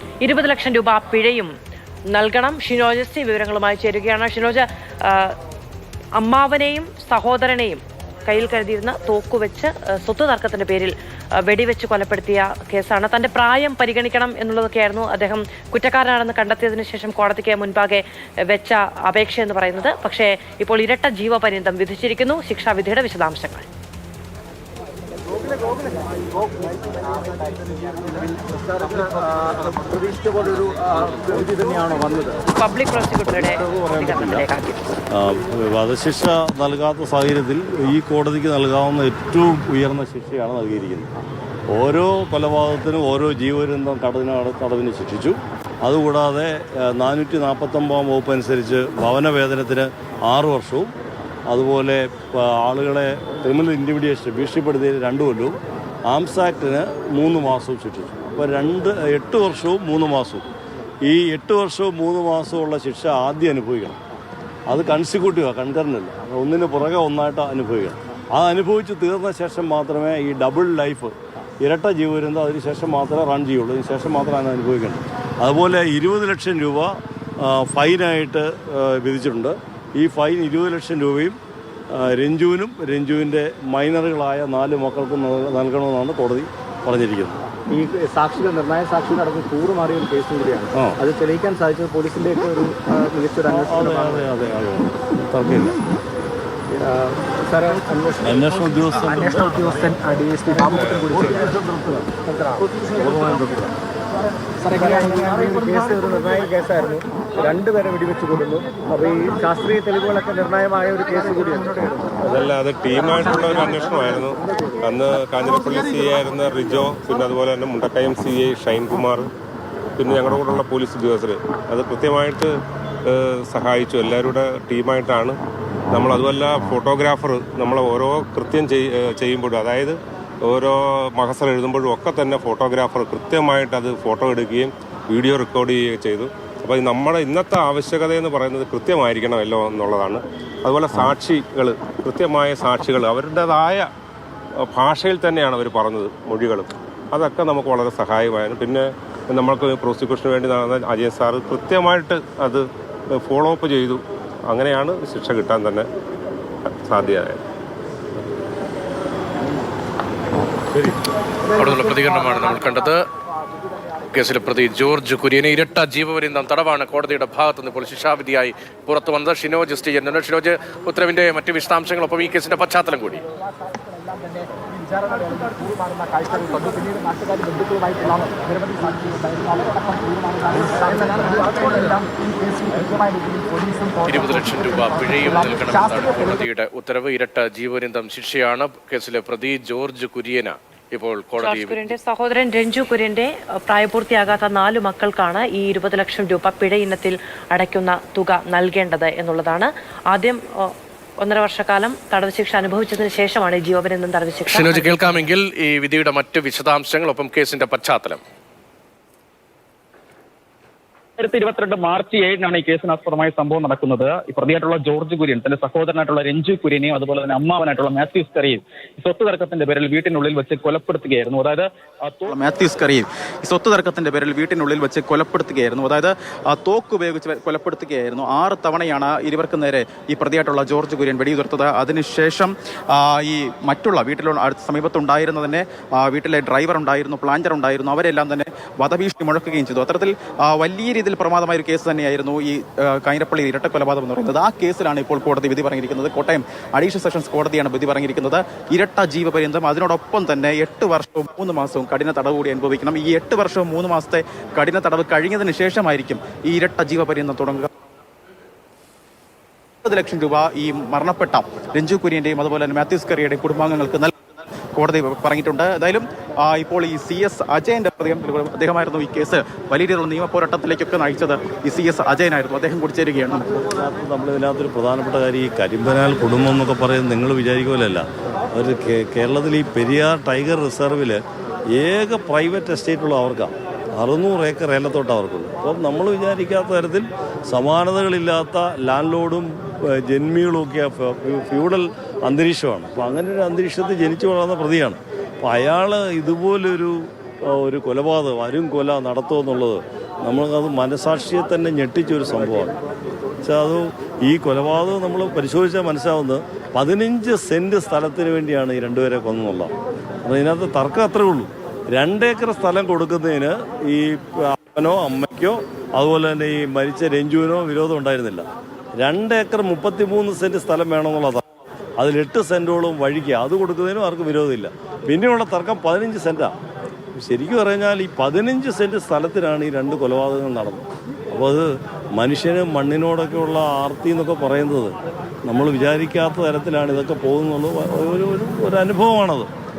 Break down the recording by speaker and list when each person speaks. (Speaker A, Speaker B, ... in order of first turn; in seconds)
Speaker A: 0.2-1.5, 2.1-5.3, 6.2-10.9, 11.4-23.6, 32.5-34.8, 191.3-200.7, 201.2-205.3
Speaker B: 25.3-32.4, 33.6-34.4, 87.7-94.3, 96.7-103.7, 104.6-112.1
Speaker C: 35.1-41.1, 41.7-50.9, 51.5-55.6, 56.1-60.5, 61.0-64.0, 64.7-81.4, 81.9-87.4, 90.7-91.0, 93.5-95.8, 98.2-99.8, 273.5-281.2, 281.8-302.8, 303.4-309.7, 310.2-321.4, 322.0-326.5, 327.1-339.5
Speaker D: 112.2-119.3, 120.0-122.5, 123.0-143.9, 144.6-155.9, 156.8-157.4
Speaker E: 161.5-163.0, 164.1-173.2, 184.0-192.0, 204.5-208.2
Speaker F: 173.8-184.1, 185.2-185.9, 211.6-213.6, 214.4-218.6, 219.1-222.2
Speaker G: 211.2-211.5, 213.6-214.6, 215.4-216.5, 217.9-218.3, 222.3-257.7, 259.8-273.5